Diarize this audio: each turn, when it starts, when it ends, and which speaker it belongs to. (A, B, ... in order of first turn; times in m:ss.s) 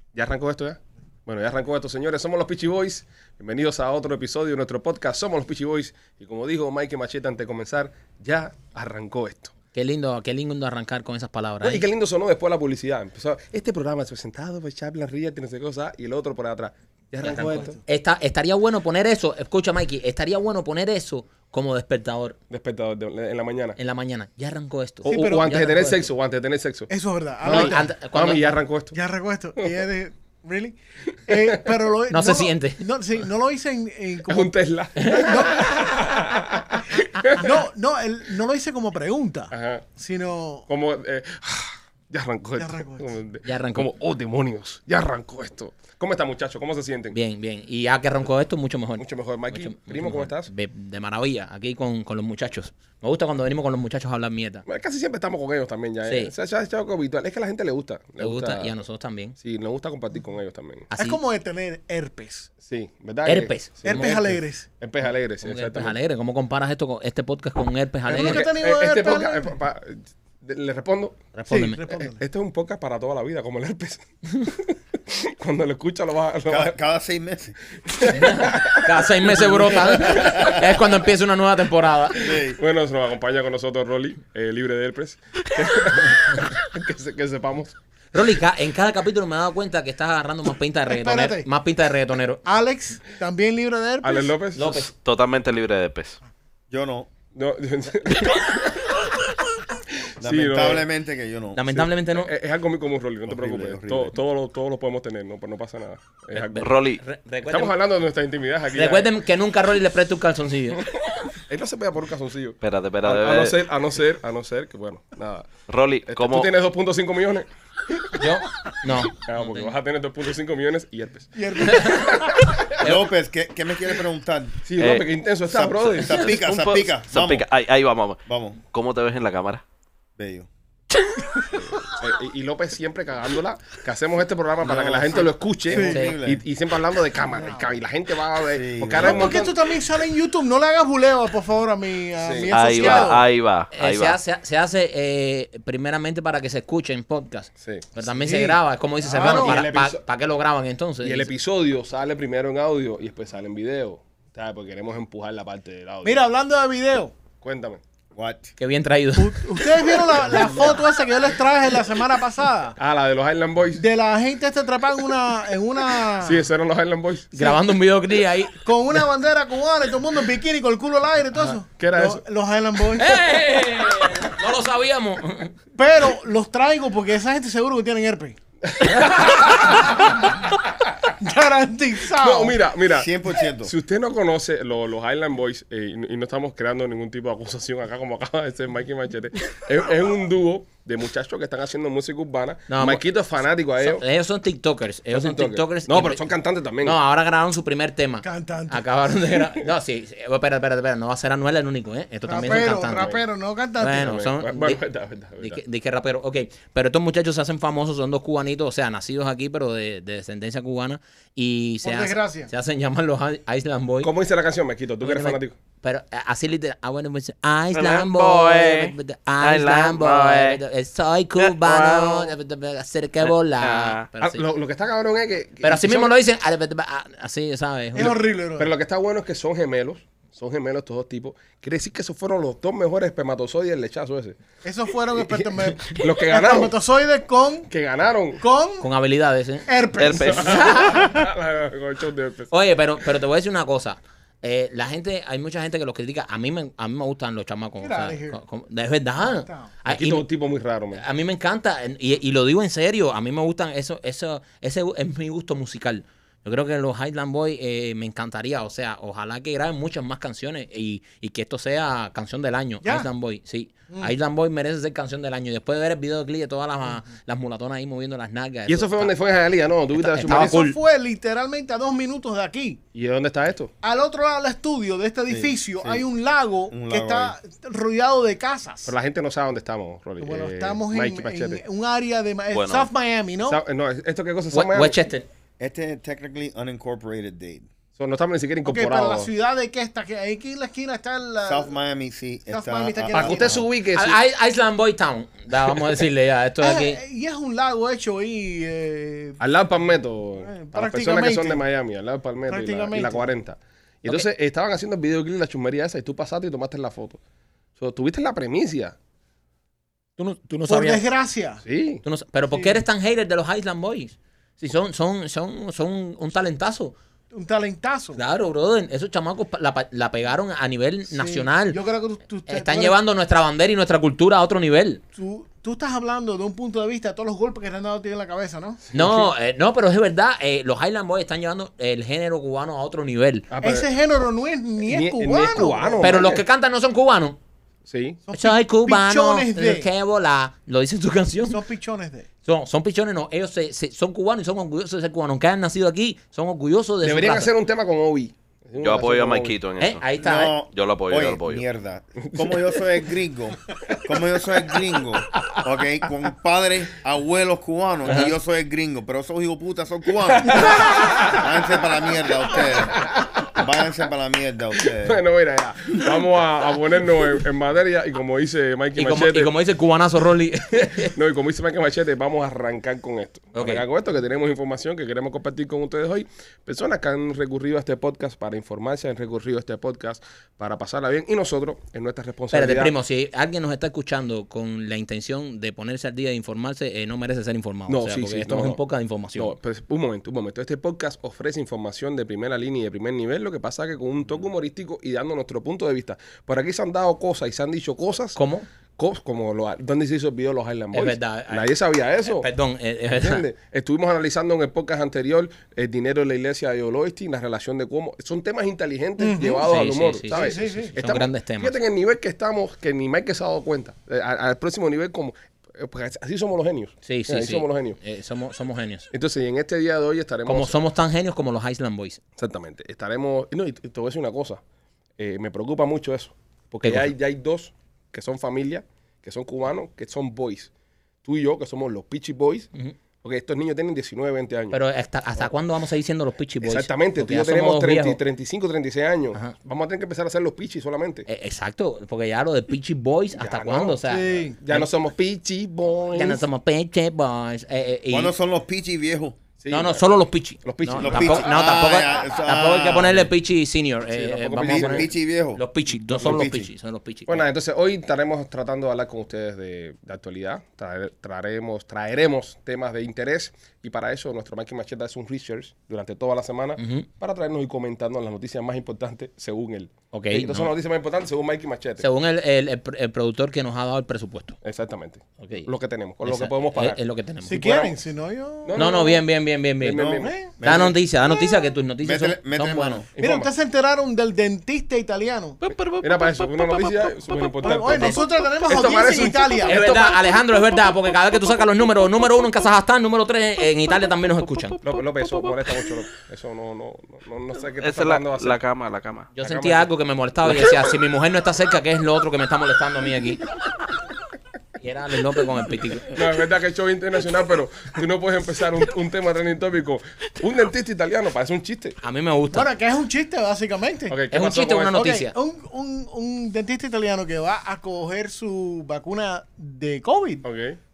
0:00.1-0:09.5 A
0:09.7-0:11.8 B
0:11.6-0:17.8 A
0:17.2-0:17.8 C
0:17.2-0:22.4 B
0:22.5-0:23.8 A
0:23.8-0:26.0 B
0:25.0-0:25.6 C
0:25.0-0:26.9 A
0:26.9-0:27.8 C
0:27.4-0:29.0 A
0:27.4-0:27.7 D
0:27.5-0:28.5 B
0:28.9-0:35.7 C
0:29.6-0:29.8 A
0:31.3-0:31.7 A
0:32.1-0:32.8 B
0:34.2-0:37.6 A
0:37.3-0:40.7 C
0:39.5-0:39.9 A
0:40.7-0:47.2 A
0:42.6-0:43.1 C
0:43.4-0:43.9 B
0:47.1-0:54.6 B
0:49.0-0:50.5 A
0:54.6-0:58.7 A
0:56.0-0:56.3 B
0:58.2-0:59.3 B
0:59.4-1:00.9 A
1:00.9-1:01.2 B
1:01.0-1:02.5 C
1:02.6-1:06.0 A
1:03.2-1:04.2 B
1:03.8-1:04.7 C
1:05.4-1:08.5 B
1:08.1-1:11.3 A
1:08.1-1:09.5 C
1:11.3-1:11.8 B
1:11.5-1:12.2 C
1:11.8-1:16.8 A
1:16.4-1:17.6 D
1:17.8-1:20.7 A
1:18.0-1:22.2 B
1:20.1-1:20.6 D
1:22.2-1:22.6 D
1:22.2-1:27.7 A
1:28.1-1:32.4 B
1:30.9-1:31.5 C
1:32.4-1:34.3 C
1:34.0-1:34.9 A
1:34.5-1:34.9 B
1:34.9-1:36.2 E
1:36.7-1:37.1 D
1:37.3-1:39.1 A
1:40.2-1:40.8 A
1:40.2-1:41.9 D
1:41.5-1:42.3 B
1:42.0-1:46.7 A
1:43.2-1:44.1 D
1:46.3-1:47.7 B
1:46.6-1:47.0 E
1:47.5-1:49.1 A
1:48.7-1:50.9 B
1:50.9-1:57.5 A
1:52.6-1:53.5 E
1:55.7-1:56.5 E
1:58.1-1:59.7 B
1:59.1-2:02.8 A
2:01.4-2:02.5 C
2:01.7-2:02.1 B
2:02.8-2:03.0 B
2:02.8-2:04.7 D
2:04.6-2:06.3 A
2:04.8-2:05.1 E
2:05.5-2:07.5 D
2:06.0-2:09.6 E
2:08.2-2:08.6 D
2:10.2-2:10.5 D
2:11.5-2:19.6 A
2:14.6-2:16.4 D
2:15.7-2:16.1 C
2:15.9-2:16.2 B
2:17.2-2:17.8 C
2:18.5-2:19.4 D
2:19.0-2:23.2 C
2:22.2-2:23.0 A
2:22.5-2:24.2 E
2:23.7-2:31.3 B
2:27.6-2:27.9 A
2:28.1-2:29.6 C
2:29.1-2:30.0 A
2:31.0-2:36.2 A
2:36.0-2:37.1 C
2:37.4-2:37.8 A
2:38.1-2:38.5 D
2:38.6-2:39.8 B
2:39.1-2:42.8 C
2:40.1-2:40.8 A
2:42.8-2:43.8 A
2:43.8-2:46.4 C
2:46.2-2:47.3 A
2:47.3-2:48.6 B
2:48.6-2:53.2 C
2:51.7-2:52.2 A
2:52.9-2:55.5 B
2:55.8-2:58.4 C
2:58.7-2:59.9 A
2:59.0-2:59.4 B
2:59.4-3:00.4 C
3:01.2-3:02.6 C
3:02.1-3:03.1 A
3:02.9-3:03.7 D
3:03.6-3:14.0 A
3:12.7-3:13.0 B
3:13.8-3:16.3 B
3:15.1-3:17.0 A
3:16.8-3:23.2 B
3:18.2-3:18.8 C
3:22.3-3:24.2 C
3:22.4-3:23.2 A
3:23.8-3:24.8 B
3:24.0-3:25.6 A
3:25.4-3:34.1 B
3:31.8-3:32.5 C
3:34.0-3:35.6 A
3:35.0-3:44.4 B
3:37.7-3:40.6 E
3:41.4-3:42.3 E
3:43.2-3:44.1 E
3:44.2-3:46.1 A
3:45.6-3:48.2 B
3:47.9-3:48.7 C
3:48.0-3:54.4 A
3:54.6-3:57.7 C
3:55.1-3:56.8 A
3:57.7-3:58.4 A
3:58.4-3:58.9 C
3:58.8-3:59.7 B
3:59.7-4:01.2 C
4:00.0-4:00.6 E
4:00.2-4:02.5 A
4:00.3-4:01.2 B
4:02.5-4:10.2 B
4:07.8-4:08.4 C
4:09.4-4:09.7 C
4:09.9-4:11.0 A
4:11.0-4:29.1 B
4:22.8-4:23.1 C
4:28.7-4:30.6 A
4:29.9-4:30.8 B
4:30.2-4:32.8 C
4:32.9-4:33.7 A
4:33.8-4:38.9 C
4:35.3-4:36.1 D
4:36.7-4:37.4 D
4:38.8-4:41.6 A
4:40.2-4:43.6 C
4:42.5-4:42.9 E
4:43.4-4:45.0 A
4:44.5-4:45.3 B
4:45.6-4:47.7 D
4:48.0-4:49.3 A
4:48.6-4:51.7 C
4:51.4-4:53.6 D
4:52.5-4:53.6 C
4:53.1-4:54.2 A
4:53.9-4:57.0 B
4:56.6-4:59.4 C
4:59.4-5:07.2 A
5:00.4-5:01.6 C
5:02.5-5:03.3 C
5:07.8-5:09.0 A
5:10.2-5:11.0 B
5:10.7-5:11.6 C
5:11.6-5:12.0 A
5:12.0-5:16.9 B
5:12.5-5:12.8 C
5:17.3-5:18.2 C
5:18.1-5:21.8 B
5:21.1-5:23.0 C
5:22.5-5:25.0 B
5:25.2-5:28.8 C
5:28.9-5:29.3 A
5:28.9-5:33.5 B
5:33.5-5:33.9 A
5:33.6-5:36.2 C
5:34.8-5:36.4 A
5:36.0-5:37.4 B
5:37.9-5:38.2 A
5:38.2-5:39.9 C
5:38.3-5:41.6 B
5:41.5-5:42.3 C
5:42.4-5:47.5 B
5:47.0-5:49.6 A
5:48.8-5:50.0 E
5:49.8-5:50.6 B
5:50.2-6:05.2 D
5:50.7-5:51.6 E
5:52.2-5:52.8 A
5:58.1-5:58.3 B
6:00.3-6:01.5 A
6:02.7-6:03.6 A
6:04.8-6:09.5 A
6:08.9-6:11.1 B
6:11.1-6:22.9 A
6:13.5-6:13.8 B
6:22.5-6:29.5 B
6:27.9-6:28.8 A
6:29.3-6:38.4 A
6:38.4-6:38.7 B
6:39.0-6:42.5 A
6:40.9-6:41.7 B
6:42.3-6:43.4 B
6:43.1-6:58.0 A
6:49.2-6:49.7 C
6:49.6-6:51.8 B
6:50.3-6:51.2 C
6:57.0-6:59.1 B
6:59.1-7:00.7 A
7:00.4-7:02.2 B
7:02.4-7:04.6 A
7:05.2-7:10.7 A
7:06.8-7:07.1 B
7:11.2-7:12.7 A
7:13.2-7:14.8 A
7:14.7-7:18.2 B
7:16.6-7:21.3 A
7:21.3-7:24.9 B
7:23.4-7:26.4 A
7:24.1-7:24.6 C
7:26.1-7:28.3 B
7:28.1-7:29.4 D
7:29.6-7:30.0 A
7:29.7-7:37.4 B
7:30.6-7:31.5 A
7:31.0-7:33.3 D
7:34.1-7:35.1 A
7:34.6-7:36.7 D
7:37.3-7:52.0 A
7:46.8-7:47.1 B
7:50.1-7:50.7 B
7:52.0-7:54.6 B
7:54.6-7:57.0 A
7:55.4-7:55.7 B
7:56.2-7:57.6 B
7:57.4-7:58.9 C
7:57.5-7:57.9 A
7:58.6-7:59.2 A
7:58.7-8:03.0 B
7:59.8-8:00.8 A
7:59.9-8:01.0 D
8:00.2-8:00.5 C
8:02.0-8:03.1 D
8:03.2-8:03.5 A
8:03.2-8:05.6 C
8:05.6-8:07.7 E
8:06.0-8:10.2 A
8:07.6-8:09.8 C
8:09.6-8:14.8 B
8:14.6-8:15.9 E
8:14.8-8:18.6 A
8:17.8-8:19.3 E
8:19.3-8:23.4 B
8:19.4-8:19.9 A
8:24.8-8:26.1 B
8:26.1-8:32.0 A
8:32.0-8:32.7 B
8:32.5-8:34.2 C
8:34.1-8:35.0 A
8:34.3-8:35.3 B
8:34.9-8:40.4 C
8:40.4-8:40.8 A